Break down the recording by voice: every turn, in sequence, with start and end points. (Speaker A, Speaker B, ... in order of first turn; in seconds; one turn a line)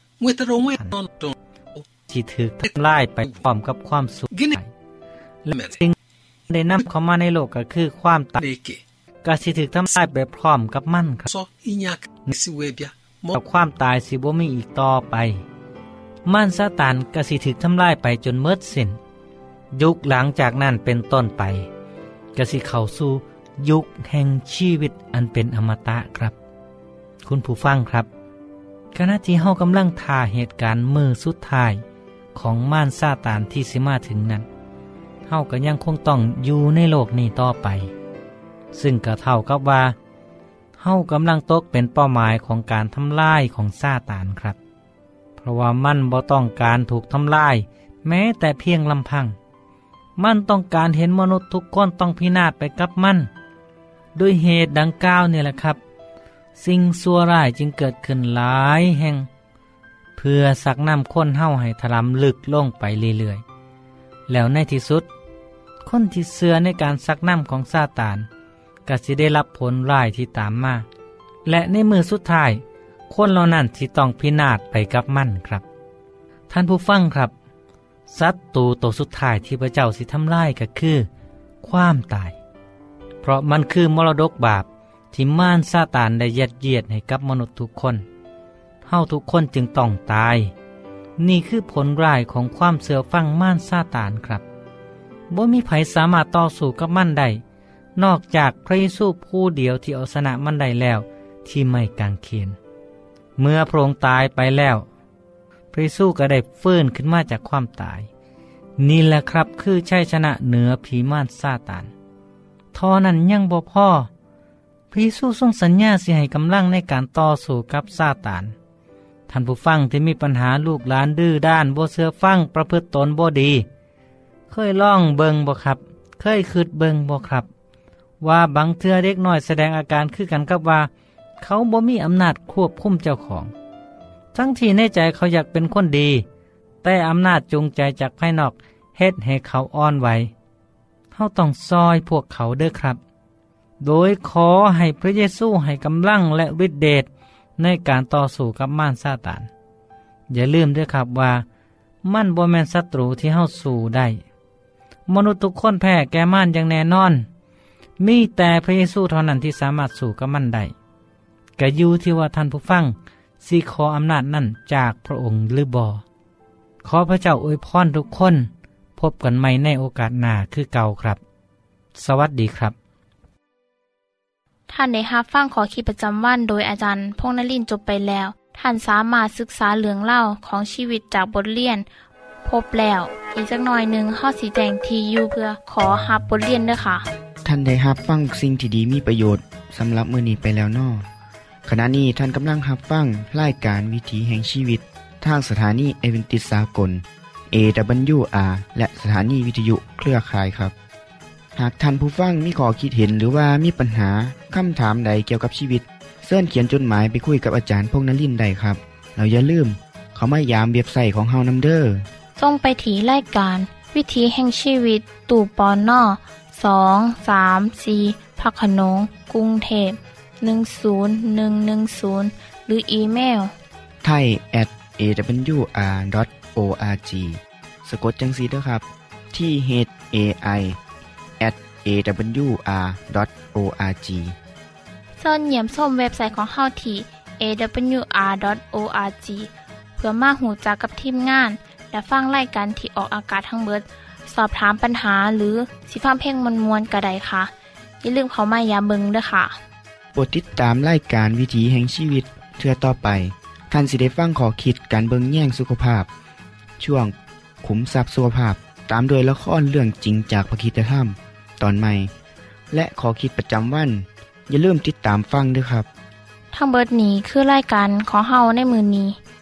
Speaker A: 0.2-1.8
Speaker B: 2.1-4.7
Speaker A: 2.6-3.4
Speaker A: 4.3-4.6
Speaker B: 5.5-6.0
Speaker A: 5.5-5.8
Speaker B: 6.5-8.4
Speaker A: 8.4-8.8
Speaker B: 9.2-11.3
Speaker A: 11.3-13.4
Speaker B: 13.3-15.4
Speaker B: 16.2-19.0
Speaker B: 19.7-21.7
Speaker B: 22.4-26.3
Speaker B: 27.2-28.1
Speaker B: 28.9-31.8
Speaker B: 32.3-34.5
Speaker B: 35.3-37.9
Speaker B: 38.7-39.9
Speaker B: 40.8-44.6
Speaker B: 45.4-49.4
Speaker B: 50.2-53.3
Speaker B: 54.1-55.8
Speaker B: 56.6-59.3
Speaker B: 60.2-63.4
Speaker B: 64.3-65.1
Speaker B: 65.8-68.3
Speaker B: 68.8-70.8
Speaker B: 71.5-75.6
Speaker B: 76.5-77.3
Speaker B: 78.1-81.1
Speaker B: 81.6-82.3
Speaker B: 83.2-88.0
Speaker B: 88.8-90.5
Speaker B: 91.2-94.4
Speaker B: 95.3-97.4
Speaker B: 98.0-102.6
Speaker B: 103.4-104.8
Speaker B: 105.7-108.1
Speaker B: 108.8-111.9
Speaker B: 112.7-114.1
Speaker B: 114.9-118.5
Speaker B: 119.3-123.7
Speaker B: 124.5-127.5
Speaker B: 128.2-130.9
Speaker B: 131.4-133.5
Speaker B: 134.3-136.2
Speaker B: 136.8-140.3
Speaker B: 141.1-143.0
Speaker B: 143.8-149.5
Speaker B: 150.3-151.4
Speaker B: 152.0-154.2
Speaker B: 155.1-157.2
Speaker B: 158.0-160.7
Speaker B: 161.6-166.0
Speaker B: 166.8-171.2
Speaker B: 171.9-172.7
Speaker C: 174.7-181.9
Speaker C: 182.4-187.0
Speaker D: 187.4-191.1
Speaker D: 191.7-200.7
Speaker D: 201.6-212.0
Speaker C: 212.4-223.5
Speaker D: 224.0-230.8
Speaker D: 231.4-234.3
Speaker C: 235.2-247.5
Speaker C: 248.0-249.6
Speaker D: 250.1-256.1
Speaker D: 256.8-262.1
Speaker D: 262.7-265.9
Speaker C: 266.5-269.2